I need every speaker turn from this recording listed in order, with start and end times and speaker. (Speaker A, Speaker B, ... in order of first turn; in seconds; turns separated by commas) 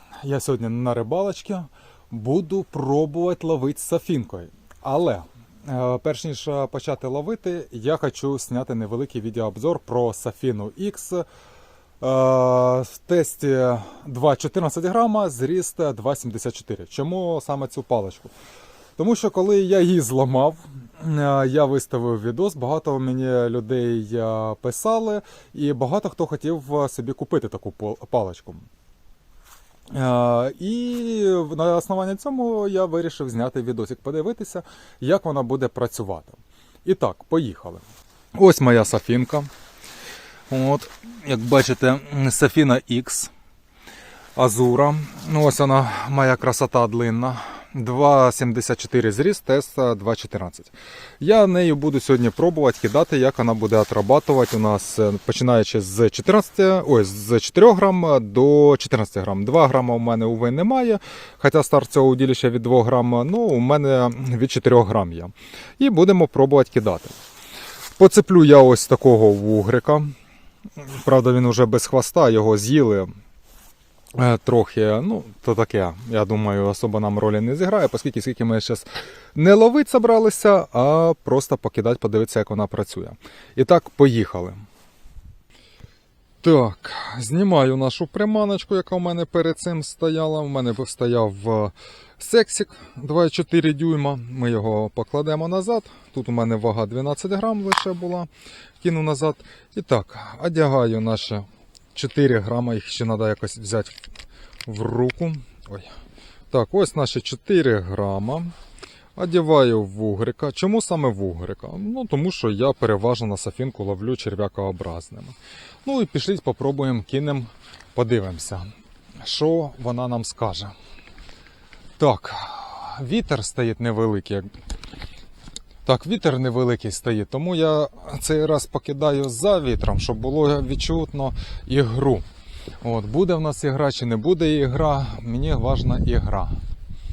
Speaker A: 0.2-11.2, Speaker A: 12.0-18.3, Speaker A: 19.0-28.6, Speaker A: 29.9-37.8, Speaker A: 38.3-39.5, Speaker A: 40.5-43.3, Speaker A: 44.4-67.1, Speaker A: 68.0-70.1, Speaker A: 70.9-73.1, Speaker A: 74.1-84.6, Speaker A: 86.4-98.3, Speaker A: 98.8-104.0, Speaker A: 104.6-105.9, Speaker A: 106.5-108.5, Speaker A: 109.2-120.7, Speaker A: 122.0-124.5, Speaker A: 125.8-132.2, Speaker A: 132.8-136.6